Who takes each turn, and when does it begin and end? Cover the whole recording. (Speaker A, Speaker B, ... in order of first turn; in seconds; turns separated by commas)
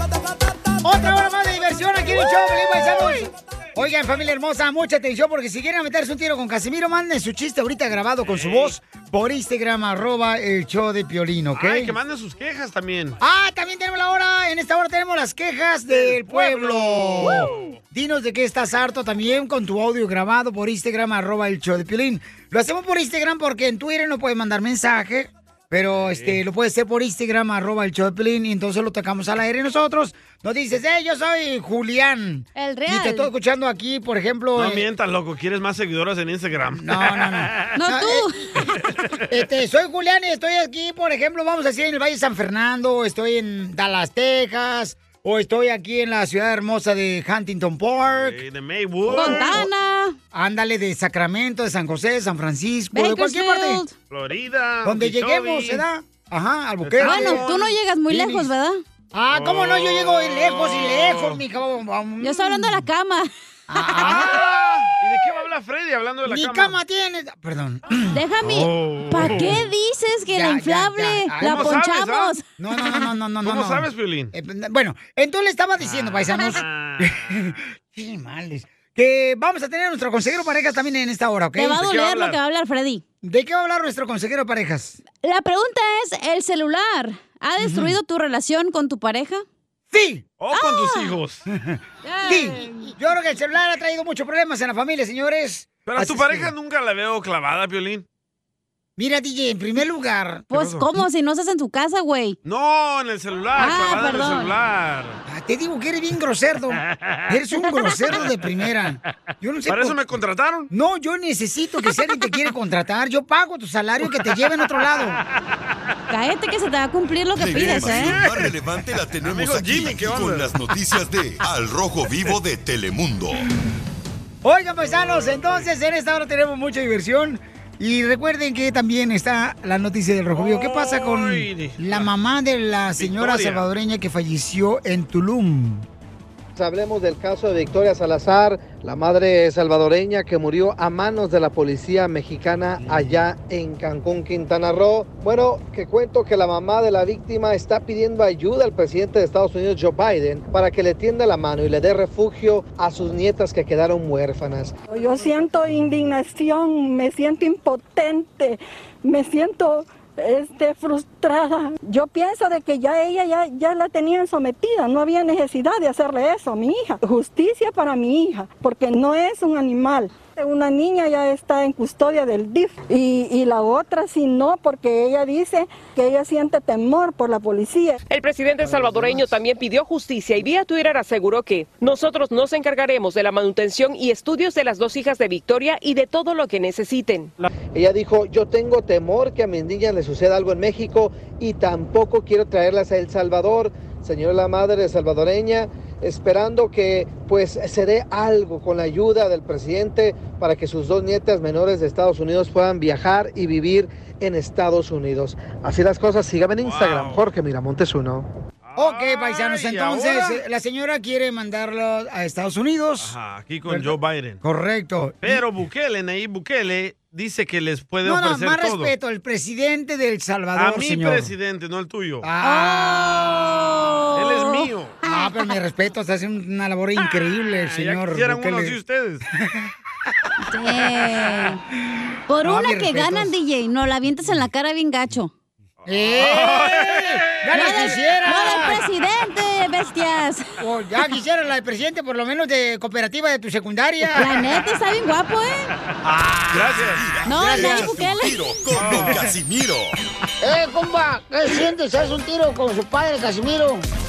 Speaker A: 0.8-11.9, Speaker B: 8.2-8.7, Speaker B: 11.5-13.2, Speaker A: 13.2-34.9, Speaker B: 15.9-17.7, Speaker B: 25.9-26.4, Speaker C: 32.5-33.3, Speaker B: 34.5-37.7, Speaker A: 36.8-38.3, Speaker C: 37.8-38.7, Speaker A: 39.3-48.4, Speaker B: 48.1-49.6, Speaker A: 49.1-49.7, Speaker C: 49.1-50.1, Speaker A: 50.3-53.8, Speaker C: 52.9-53.9, Speaker B: 54.1-55.8, Speaker A: 54.8-57.5, Speaker B: 56.8-57.7, Speaker C: 57.0-58.8, Speaker A: 58.1-58.5, Speaker A: 59.1-62.9, Speaker B: 59.3-61.4, Speaker C: 62.2-63.3, Speaker A: 63.7-64.9, Speaker C: 63.9-64.3, Speaker B: 65.0-66.8, Speaker A: 66.2-68.2, Speaker C: 68.1-72.4, Speaker B: 68.4-69.6, Speaker A: 70.3-71.8, Speaker B: 71.4-72.4, Speaker A: 72.6-81.8, Speaker B: 73.4-74.3, Speaker B: 75.8-77.5, Speaker C: 81.6-83.0, Speaker B: 81.8-82.4, Speaker A: 83.2-85.0, Speaker C: 85.2-89.4, Speaker A: 87.6-88.0, Speaker A: 89.9-90.2, Speaker B: 90.4-91.4, Speaker C: 90.5-91.1, Speaker A: 91.6-96.5, Speaker C: 92.0-92.9, Speaker B: 95.8-98.0, Speaker A: 99.0-100.5, Speaker C: 100.5-102.4, Speaker B: 100.5-100.8, Speaker B: 102.4-105.2, Speaker C: 103.6-104.5, Speaker A: 105.3-110.0, Speaker B: 106.9-107.3, Speaker B: 109.7-110.7, Speaker A: 110.7-115.2, Speaker C: 116.1-118.2, Speaker D: 117.3-123.4, Speaker B: 117.6-118.5, Speaker B: 119.2-120.6, Speaker A: 124.4-135.9, Speaker B: 124.9-125.6, Speaker B: 130.3-132.1, Speaker B: 132.9-133.6, Speaker E: 136.6-154.8, Speaker F: 154.9-178.0, Speaker G: 178.1-187.3, Speaker E: 187.7-208.3, Speaker B: 206.6-207.2, Speaker B: 208.7-210.4, Speaker A: 208.8-213.1, Speaker B: 213.0-214.4, Speaker A: 213.7-215.4, Speaker B: 215.2-218.9, Speaker A: 218.0-221.3, Speaker B: 220.6-222.3, Speaker A: 222.2-223.6, Speaker C: 222.4-225.1, Speaker B: 224.1-225.0, Speaker A: 225.0-228.8, Speaker B: 227.6-229.2, Speaker A: 229.4-229.7, Speaker C: 230.5-231.6, Speaker C: 232.3-235.3, Speaker A: 232.4-233.3, Speaker B: 235.8-237.9, Speaker A: 235.9-238.8, Speaker C: 237.5-240.4, Speaker A: 240.6-244.4, Speaker C: 244.2-245.7, Speaker A: 246.0-246.8, Speaker B: 246.5-247.1, Speaker D: 246.5-249.9, Speaker C: 247.2-248.4, Speaker A: 247.3-247.9, Speaker B: 248.7-249.3, Speaker A: 250.4-253.9